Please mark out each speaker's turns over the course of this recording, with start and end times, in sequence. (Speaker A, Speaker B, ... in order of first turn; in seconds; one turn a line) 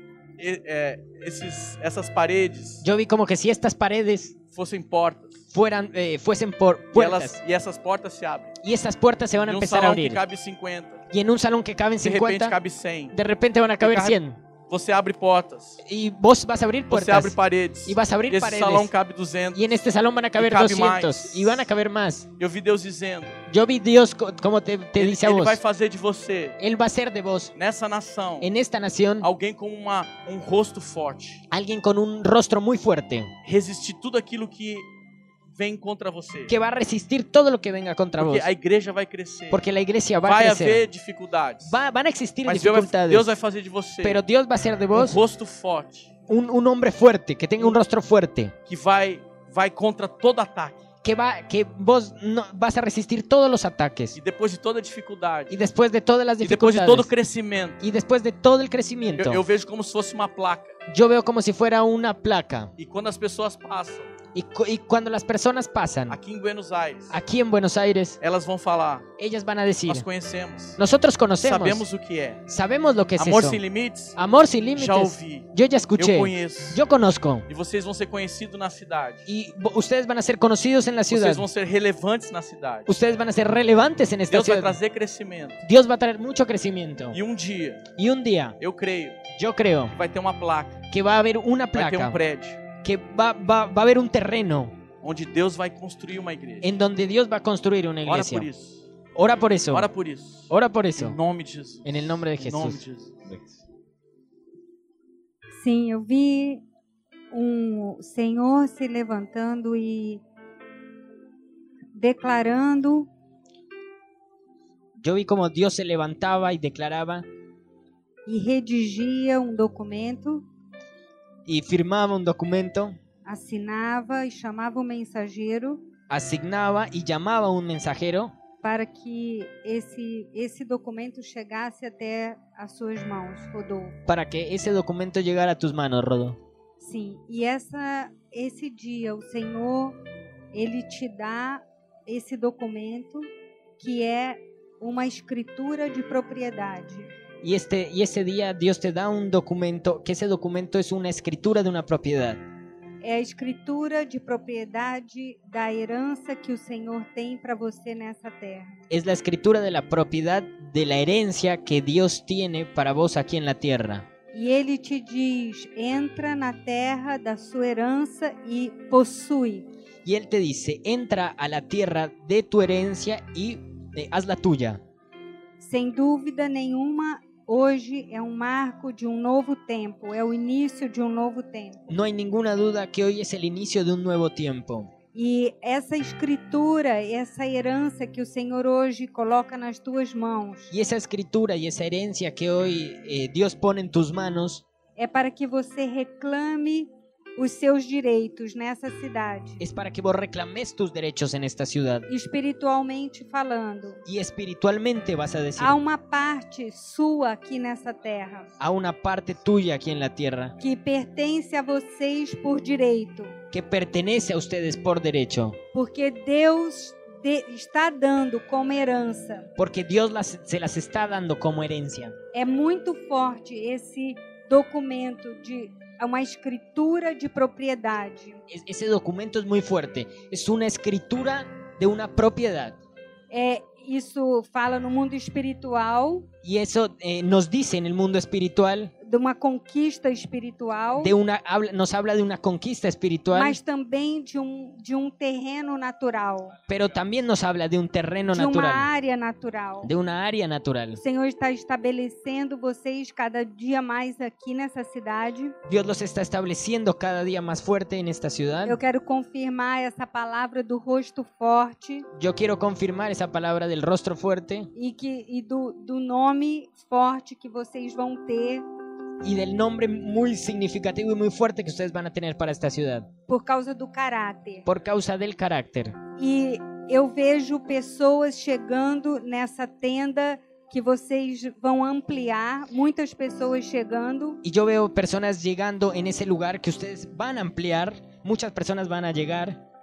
Speaker A: 0.4-2.8
Speaker B: 2.8-4.3
Speaker A: 4.5-5.4
Speaker B: 5.5-7.4
Speaker A: 6.9-8.5
Speaker B: 8.6-10.2
Speaker A: 9.4-11.0
Speaker B: 11.1-12.6
Speaker A: 12.0-13.1
Speaker B: 13.1-14.4
Speaker A: 13.8-15.8
Speaker B: 15.8-18.9
Speaker A: 16.9-19.7
Speaker B: 19.5-22.3
Speaker A: 20.4-21.7
Speaker A: 22.4-23.4
Speaker B: 23.5-25.6
Speaker A: 24.9-26.6
Speaker B: 26.6-27.5
Speaker A: 27.5-28.5
Speaker B: 28.4-29.3
Speaker A: 29.2-31.4
Speaker B: 31.5-33.3
Speaker A: 33.4-34.9
Speaker A: 35.5-36.5
Speaker B: 36.5-38.5
Speaker A: 38.2-39.6
Speaker B: 39.5-40.9
Speaker A: 40.2-41.8
Speaker B: 41.6-43.3
Speaker A: 42.5-44.2
Speaker B: 44.0-45.2
Speaker A: 44.9-46.1
Speaker B: 46.3-48.5
Speaker A: 48.6-50.8
Speaker B: 51.0-54.2
Speaker A: 54.1-55.5
Speaker B: 55.5-57.1
Speaker A: 56.4-57.8
Speaker B: 57.8-59.4
Speaker A: 59.1-60.8
Speaker B: 60.9-62.7
Speaker A: 62.8-64.1
Speaker B: 64.3-66.2
Speaker A: 66.1-67.2
Speaker B: 67.1-68.2
Speaker A: 68.2-69.1
Speaker B: 69.2-70.1
Speaker A: 69.9-70.8
Speaker B: 70.8-71.8
Speaker A: 71.4-72.4
Speaker B: 72.5-73.6
Speaker A: 73.2-74.2
Speaker B: 74.2-77.5
Speaker A: 74.7-76.8
Speaker A: 77.5-79.2
Speaker B: 79.2-81.5
Speaker A: 81.1-82.9
Speaker B: 82.9-84.8
Speaker A: 84.3-85.6
Speaker B: 85.6-87.2
Speaker A: 87.1-87.9
Speaker B: 88.0-88.6
Speaker A: 88.6-89.2
Speaker B: 89.3-90.0
Speaker A: 89.9-90.8
Speaker B: 90.9-92.2
Speaker A: 91.7-92.6
Speaker B: 92.8-94.7
Speaker A: 95.0-96.7
Speaker B: 96.6-98.5
Speaker A: 98.0-98.8
Speaker B: 99.1-99.9
Speaker A: 99.7-103.2
Speaker B: 100.5-101.2
Speaker B: 101.8-103.5
Speaker C: 105.6-106.6
Speaker C: 107.3-110.2
Speaker C: 111.9-113.1
Speaker B: 115.0-117.2
Speaker C: 118.2-120.4
Speaker B: 121.5-123.0
Speaker C: 123.2-125.8
Speaker B: 126.1-128.3
Speaker C: 128.6-133.9
Speaker B: 134.1-136.4
Speaker C: 136.8-140.0
Speaker C: 140.5-143.3
Speaker C: 143.8-147.1
Speaker B: 147.4-152.4
Speaker C: 153.0-158.8
Speaker B: 158.9-164.1
Speaker C: 164.3-169.7
Speaker B: 170.0-174.8
Speaker C: 175.6-181.8
Speaker B: 181.9-184.9
Speaker C: 185.1-190.7
Speaker B: 190.7-194.6
Speaker C: 195.0-199.6
Speaker B: 199.6-202.1
Speaker C: 202.1-204.0
Speaker B: 204.1-205.8
Speaker C: 205.6-208.5
Speaker B: 208.6-210.5
Speaker C: 210.6-213.3
Speaker B: 213.5-215.6
Speaker C: 215.7-219.5
Speaker B: 219.6-222.2
Speaker C: 222.3-228.4
Speaker B: 228.5-232.8
Speaker C: 233.3-236.3
Speaker B: 236.4-238.9
Speaker C: 239.0-241.1
Speaker B: 241.0-243.6
Speaker C: 243.3-246.5
Speaker B: 246.7-248.9
Speaker C: 248.3-249.9
Speaker B: 249.8-251.0
Speaker C: 251.0-255.5
Speaker B: 255.7-258.8
Speaker C: 258.6-262.1
Speaker B: 262.1-264.7
Speaker C: 264.7-268.6
Speaker B: 269.2-273.1
Speaker C: 273.3-274.6
Speaker B: 274.6-275.9
Speaker C: 276.2-284.4
Speaker B: 284.4-289.6